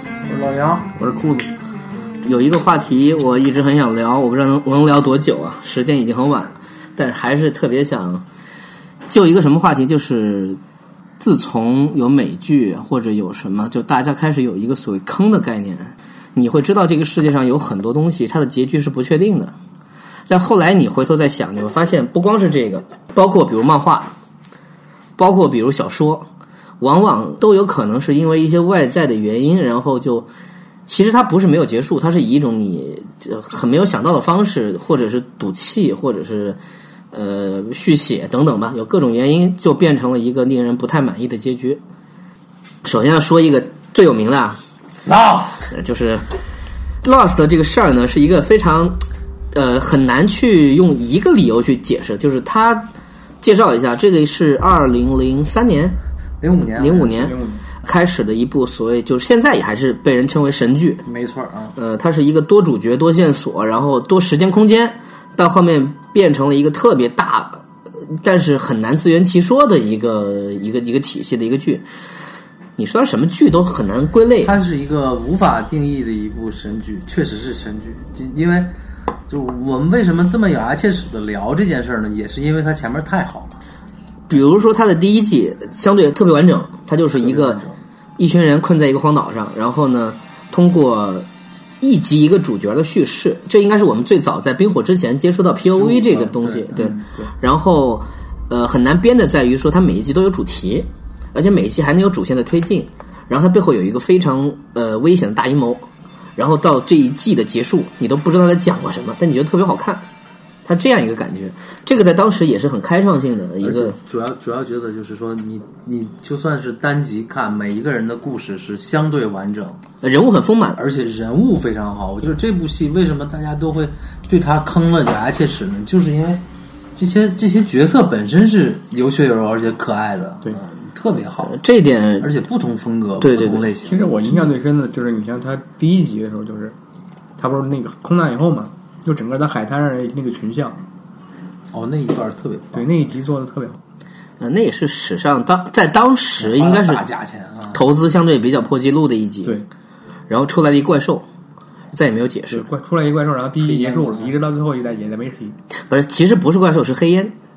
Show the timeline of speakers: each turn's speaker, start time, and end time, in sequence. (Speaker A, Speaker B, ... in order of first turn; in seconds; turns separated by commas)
Speaker A: 0.3-0.9, Speaker B: 1.0-1.5, Speaker B: 2.2-8.2, Speaker B: 9.1-10.6, Speaker B: 11.2-19.5, Speaker B: 20.3-24.1, Speaker B: 25.2-26.3, Speaker B: 26.8-30.3, Speaker B: 30.9-36.6, Speaker B: 37.1-41.8, Speaker B: 42.8-44.6, Speaker A: 45.0-45.7, Speaker B: 45.7-46.3, Speaker B: 47.0-49.0, Speaker B: 49.5-52.9, Speaker B: 53.4-56.0, Speaker A: 56.4-57.4, Speaker B: 56.8-61.0, Speaker C: 57.0-57.6, Speaker A: 61.0-61.7, Speaker B: 61.8-67.6, Speaker B: 68.2-71.8, Speaker B: 72.8-74.5, Speaker A: 74.4-78.7, Speaker A: 79.3-83.6, Speaker B: 84.3-87.6, Speaker A: 87.2-87.8, Speaker B: 88.2-91.3, Speaker B: 91.8-110.0, Speaker A: 95.8-97.1, Speaker B: 110.7-114.0, Speaker A: 113.6-119.8, Speaker B: 120.0-120.8, Speaker A: 120.8-126.4, Speaker A: 127.0-131.6, Speaker B: 131.4-132.3, Speaker A: 132.2-134.5, Speaker B: 133.2-133.7, Speaker C: 133.8-136.8, Speaker C: 137.4-140.8, Speaker A: 141.7-142.9, Speaker C: 142.7-143.8, Speaker B: 144.4-147.0, Speaker A: 146.4-147.8, Speaker B: 147.7-149.6, Speaker B: 150.3-151.2, Speaker B: 151.9-152.7, Speaker C: 152.5-155.6, Speaker A: 153.6-154.3, Speaker B: 155.9-157.3